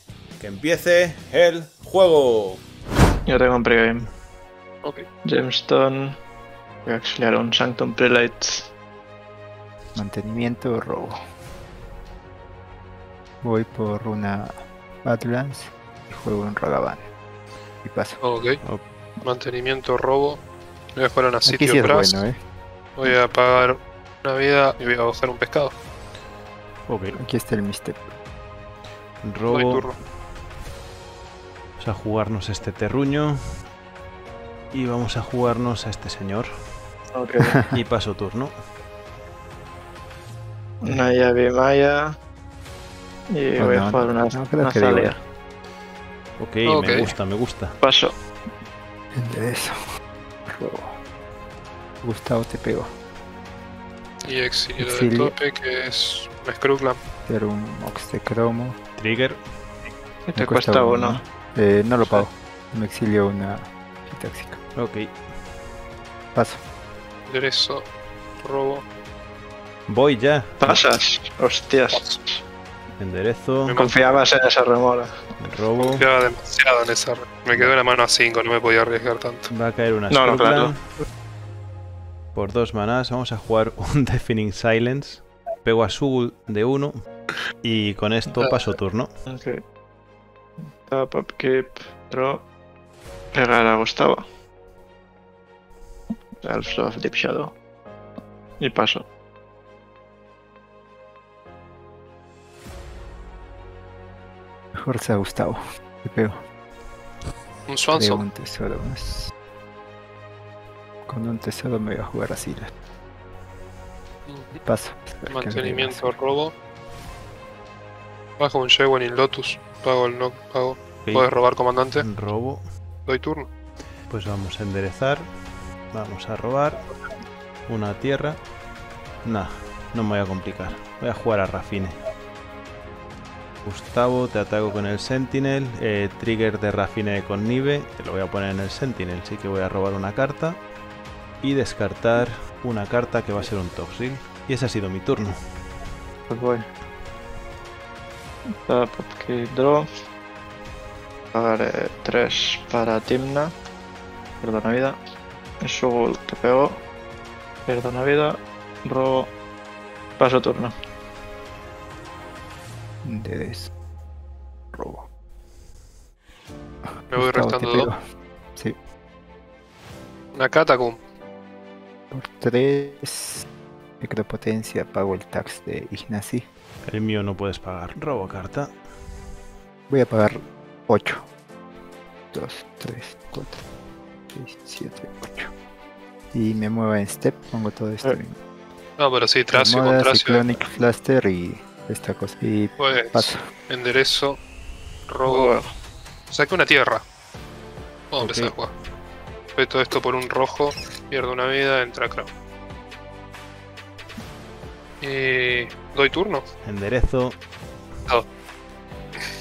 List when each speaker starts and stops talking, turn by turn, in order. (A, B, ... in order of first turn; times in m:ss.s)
0:00.4-0:02.6 A
0:03.3-0:04.1 B
0:05.2-0:06.2 B
0:06.8-0:08.7 B
0:10.0-0:11.2 C
0:13.4-0:17.1 C
0:17.8-0:18.2 C
0:18.2-0:18.6 D
0:19.2-0:20.4 D
0:21.0-0:22.2 D
0:21.4-0:22.4 C
0:23.0-0:25.7 D
0:26.9-0:27.2 A
0:27.2-0:28.0 C
0:29.2-0:29.9 A
0:29.5-0:30.0 D
0:31.8-0:33.4 A
0:34.7-0:36.5 A
0:37.1-0:37.6 B
0:37.7-0:38.6 A
0:40.8-0:42.1 B
0:43.3-0:45.2 B
0:43.6-0:45.2 C
0:46.4-0:47.8 A
0:46.6-0:47.1 D
0:47.8-0:48.1 B
0:49.2-0:49.8 C
0:50.5-0:51.0 C
0:52.0-0:52.9 C
0:54.2-0:57.0 D
0:54.8-0:55.4 C
0:57.3-0:58.8 C
0:59.0-0:59.4 A
1:00.3-1:01.2 B
1:00.4-1:04.6 C
1:04.8-1:05.1 A
1:06.3-1:06.6 C
1:07.3-1:07.9 D
1:08.4-1:08.8 D
1:09.9-1:10.8 A
1:10.6-1:12.4 B
1:13.0-1:13.8 A
1:13.7-1:14.0 D
1:13.8-1:15.1 B
1:15.4-1:16.1 A
1:15.8-1:19.5 D
1:19.5-1:20.8 A
1:20.1-1:20.8 B
1:22.4-1:27.0 A
1:27.6-1:29.1 A
1:29.3-1:29.6 B
1:30.8-1:32.5 B
1:33.3-1:34.2 B
1:36.4-1:37.6 B
1:38.6-1:39.1 B
1:44.8-1:46.4 C
1:47.7-1:48.2 D
1:47.9-1:49.3 C
1:51.1-1:52.7 C
1:54.3-1:54.6 D
1:54.7-1:56.1 C
1:55.3-1:56.5 D
1:58.4-2:02.0 D
2:01.9-2:02.6 A
2:03.1-2:03.5 D
2:04.1-2:05.3 A
2:05.9-2:06.9 A
2:07.7-2:08.4 A
2:09.2-2:12.0 A
2:13.6-2:20.6 A
2:21.4-2:25.4 A
2:26.3-2:26.6 B
2:28.7-2:29.9 B
2:31.3-2:33.6 B
2:34.4-2:35.0 B
2:35.6-2:36.8 B
2:37.7-2:39.3 B
2:40.2-2:40.7 B
2:43.0-2:43.7 C
2:44.7-2:45.1 C
2:47.0-2:48.0 C
2:47.1-2:47.9 D
2:50.3-2:51.0 D
2:52.1-2:53.4 C
2:54.0-2:56.4 C
2:56.9-2:58.7 A
2:59.9-3:01.3 C
3:02.3-3:03.6 C
3:04.3-3:05.5 C
3:06.3-3:08.4 C
3:09.0-3:10.6 D
3:09.5-3:13.4 C
3:12.8-3:14.4 D
3:15.1-3:15.6 D
3:15.3-3:15.7 B
3:16.3-3:17.0 D
3:18.1-3:18.7 D
3:18.2-3:18.6 A
3:19.6-3:22.3 D
3:25.0-3:26.4 D
3:26.6-3:27.4 A